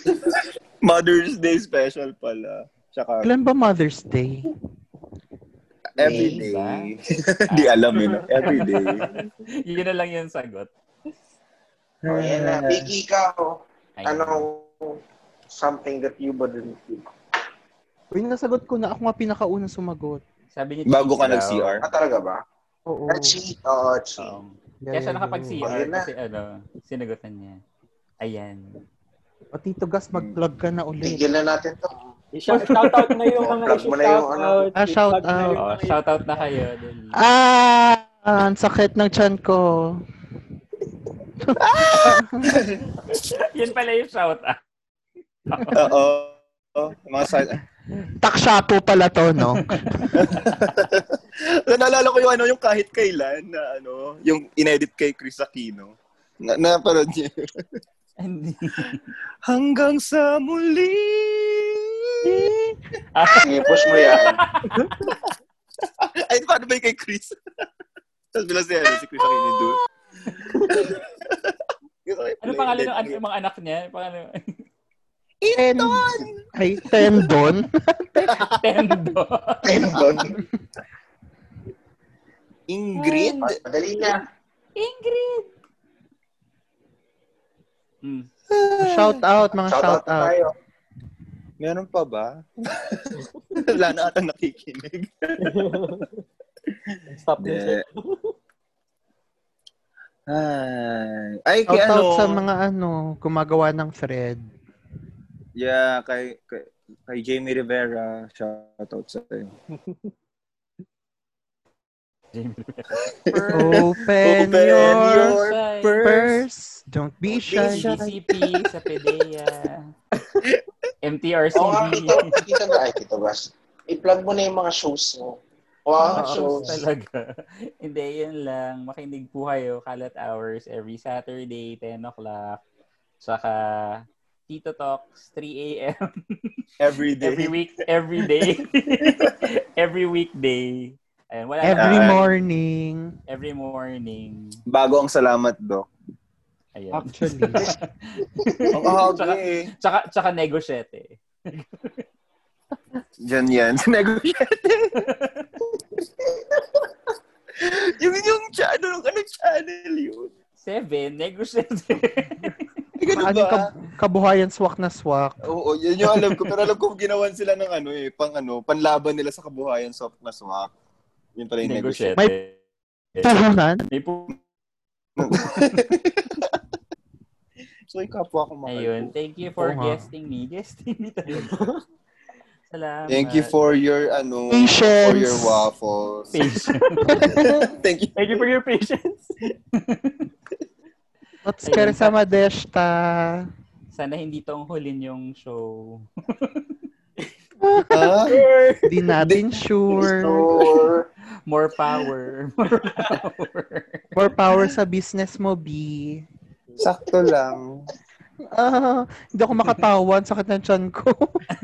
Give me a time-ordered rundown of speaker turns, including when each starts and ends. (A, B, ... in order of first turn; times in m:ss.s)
0:00.8-0:03.3 A
0:03.2-0:04.5 B
0:05.9-0:09.0 A
0:06.0-0:06.4 B
0:06.0-0:06.9 C
0:07.5-0:10.7 C
0:12.0-0:12.9 A
0:12.1-0:15.0 D
0:14.0-0:14.4 C
0:15.5-0:17.1 D
0:18.1-0:20.2 B
0:20.5-0:21.8 C
0:20.8-0:21.8 A
0:21.8-0:22.4 D
0:22.9-0:23.4 B
0:23.1-0:24.4 D
0:24.2-0:27.6 C
0:24.8-0:25.7 B
0:25.6-0:26.1 D
0:28.2-0:28.8 C
0:29.5-0:31.2 B
0:30.1-0:30.4 A
0:31.0-0:32.1 D
0:32.3-0:36.4 E
0:32.5-0:33.4 C
0:33.4-0:34.7 D
0:34.8-0:35.6 B
0:35.6-0:37.2 C
0:37.1-0:40.0 B
0:41.4-0:42.5 B
0:41.6-0:42.9 A
0:43.2-0:44.6 C
0:45.5-0:45.9 C
0:45.7-0:47.6 A
0:48.2-0:50.1 B
0:49.5-0:50.2 C
0:50.1-0:57.6 A
0:58.2-0:59.0 C
0:59.5-1:02.3 A
1:02.2-1:02.8 B
1:03.1-1:05.1 C
1:03.3-1:04.4 D
1:05.0-1:05.3 A
1:06.0-1:07.3 A
1:08.3-1:09.8 A
1:10.5-1:10.8 E
1:10.6-1:11.5 A
1:12.0-1:13.2 A
1:12.4-1:14.6 C
1:15.4-1:16.4 A
1:15.5-1:18.5 B
1:18.4-1:20.0 C
1:19.6-1:20.4 D
1:22.7-1:23.6 A
1:23.0-1:23.4 C
1:23.4-1:24.2 D
1:24.8-1:25.5 C
1:28.5-1:29.2 A
1:28.8-1:30.3 B
1:29.7-1:30.5 D
1:31.6-1:35.9 A
1:35.4-1:36.1 E
1:37.1-1:38.3 E
1:37.4-1:37.8 A
1:40.3-1:42.4 A
1:41.7-1:44.5 B
1:45.6-1:49.5 A
1:52.3-1:54.0 C
1:53.1-1:55.6 A
1:53.5-1:58.0 B
1:54.7-1:56.4 C
1:57.3-1:58.2 A
1:57.5-1:59.9 C
2:01.0-2:02.4 C
2:01.5-2:06.7 D
2:06.0-2:12.6 C
2:06.0-2:06.8 B
2:13.2-2:16.6 C
2:16.8-2:17.6 A
2:17.2-2:22.3 C
2:18.4-2:19.3 A
2:21.6-2:23.2 B
2:21.7-2:22.2 A
2:23.3-2:24.6 C
2:24.7-2:25.9 A
2:26.7-2:32.0 C
2:26.9-2:27.6 A
2:27.0-2:27.7 B
2:28.7-2:29.7 A
2:33.2-2:35.0 A
2:35.0-2:35.4 C
2:37.6-2:40.3 A
2:40.6-2:42.6 C
2:43.0-2:43.7 A
2:43.1-2:45.4 B
2:45.4-2:50.7 A
2:51.4-2:52.1 A
2:51.6-2:52.5 C
2:53.1-2:54.4 C
2:53.2-2:53.8 B
2:55.2-2:56.5 A
2:57.9-2:59.1 A
2:58.7-3:01.6 C
2:59.6-3:00.1 B
3:01.3-3:01.8 E
3:02.7-3:03.5 C
3:03.1-3:06.4 A
3:04.5-3:05.7 B
3:06.3-3:07.2 C
3:06.6-3:07.2 E
3:07.1-3:07.3 B
3:07.2-3:08.2 A
3:08.2-3:09.3 E
3:09.7-3:10.3 C
3:11.4-3:13.5 B
3:11.6-3:12.2 C
3:13.9-3:16.7 C
3:17.6-3:18.2 B
3:17.9-3:18.5 A
3:18.2-3:18.9 E
3:18.8-3:20.6 B
3:19.2-3:19.6 A
3:20.0-3:21.1 D
3:21.5-3:24.1 C
3:22.8-3:23.2 E
3:24.2-3:26.2 B
3:26.8-3:27.8 A
3:28.5-3:31.4 B